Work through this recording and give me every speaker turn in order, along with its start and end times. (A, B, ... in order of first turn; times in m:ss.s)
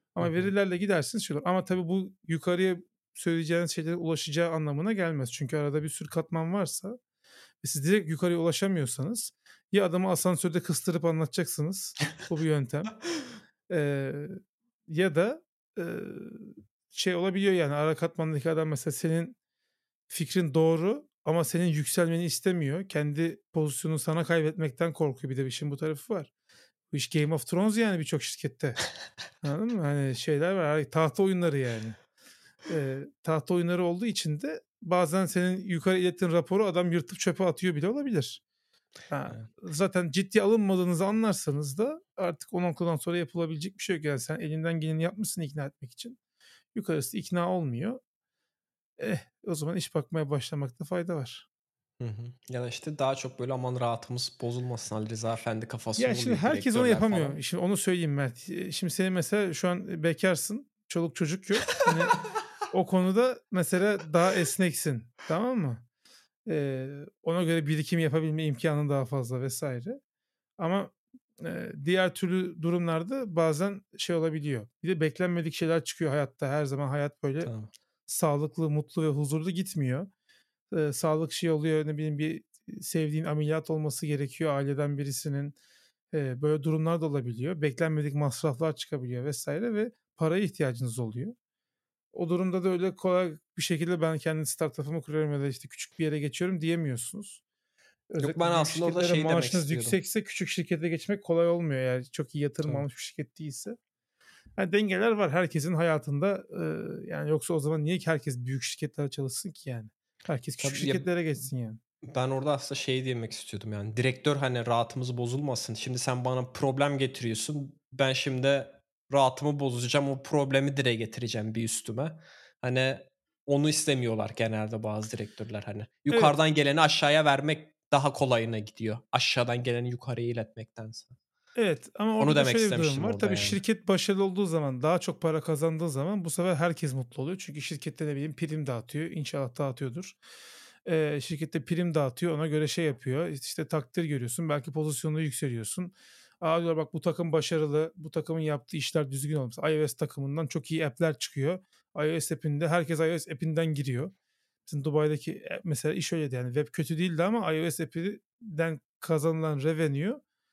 0:00.2-0:07.0 A
0:00.2-0:00.5 B
0:07.6-0:13.0 A
0:13.7-0:19.4 A
0:20.1-0:26.3 A
0:26.9-0:28.8 A
0:29.4-0:32.0 A
0:32.7-0:38.4 A
0:39.1-0:46.2 A
0:46.7-0:48.0 A
0:49.0-0:51.5 A
0:52.0-0:57.4 B
0:56.0-1:02.2 A
1:02.7-1:05.8 A
1:06.5-1:10.0 A
1:10.6-1:17.5 A
1:17.4-1:17.7 B
1:18.1-1:20.1 A
1:20.7-1:25.6 A
1:26.1-1:31.4 A
1:32.1-1:37.4 A
1:38.1-1:43.8 A
1:38.2-1:40.0 B
1:44.6-1:51.8 A
1:50.6-1:51.1 B
1:52.0-2:11.2 B
2:06.1-2:06.4 A
2:11.6-2:20.2 A
2:12.2-2:13.6 B
2:20.8-2:34.1 A
2:34.7-2:40.2 A